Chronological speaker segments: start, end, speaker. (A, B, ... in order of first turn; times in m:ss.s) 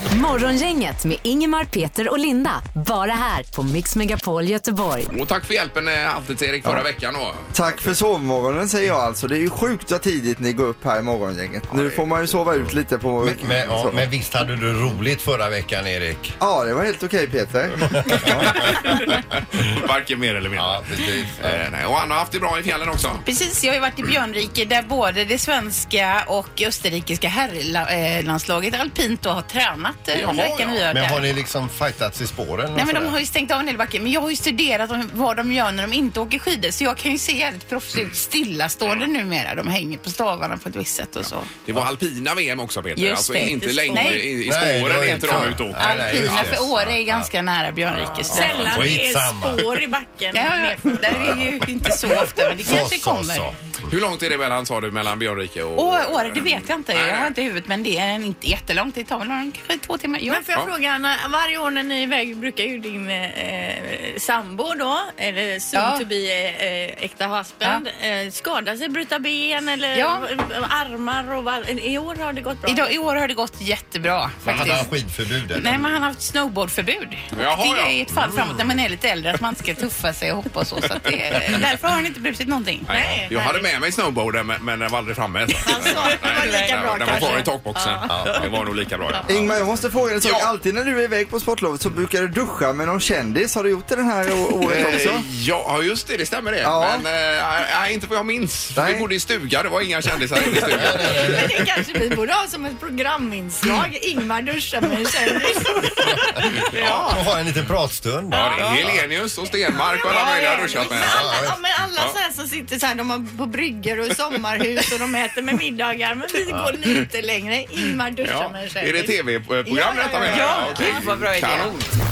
0:00.1-0:05.1 A
0:05.1-0:07.5 B
0:07.5-0:14.0 C
0:11.7-0:12.3 B
0:13.2-0:16.4 D
0:16.4-0:18.6 C
0:18.0-0:23.2 B
0:18.1-0:18.7 D
0:20.5-0:21.6 D
0:23.2-0:31.3 E
0:30.1-0:30.9 B
0:30.9-0:33.1 D
0:32.8-0:41.5 E
0:41.2-0:46.6 B
0:43.0-0:44.3 E
0:43.4-0:44.2 F
0:44.4-0:47.3 D
0:45.8-0:48.9 E
0:47.9-0:48.7 B
0:48.3-0:51.4 F
0:48.5-0:49.6 D
0:50.3-0:53.5 E
0:51.1-0:51.5 D
0:52.6-0:53.6 D
0:53.9-0:57.3 B
0:55.8-1:00.4 E
1:00.3-1:12.9 F
1:05.7-1:06.0 E
1:09.9-1:10.3 E
1:12.6-1:14.9 E
1:14.4-1:15.8 D
1:14.5-1:14.8 B
1:15.5-1:22.9 E
1:17.3-1:18.0 B
1:22.9-1:23.7 F
1:22.9-1:29.6 B
1:25.6-1:28.5 F
1:28.1-1:28.4 D
1:29.3-1:35.2 C
1:30.2-1:30.5 B
1:34.6-1:41.4 B
1:36.6-1:37.0 C
1:38.8-1:39.1 C
1:40.5-1:41.5 D
1:41.0-1:47.1 F
1:46.0-1:49.0 D
1:46.6-1:47.3 B
1:48.3-1:51.4 B
1:48.3-1:48.7 F
1:49.9-2:01.1 F
1:50.9-1:51.6 D
1:58.2-2:01.9 B
2:00.2-2:01.7 E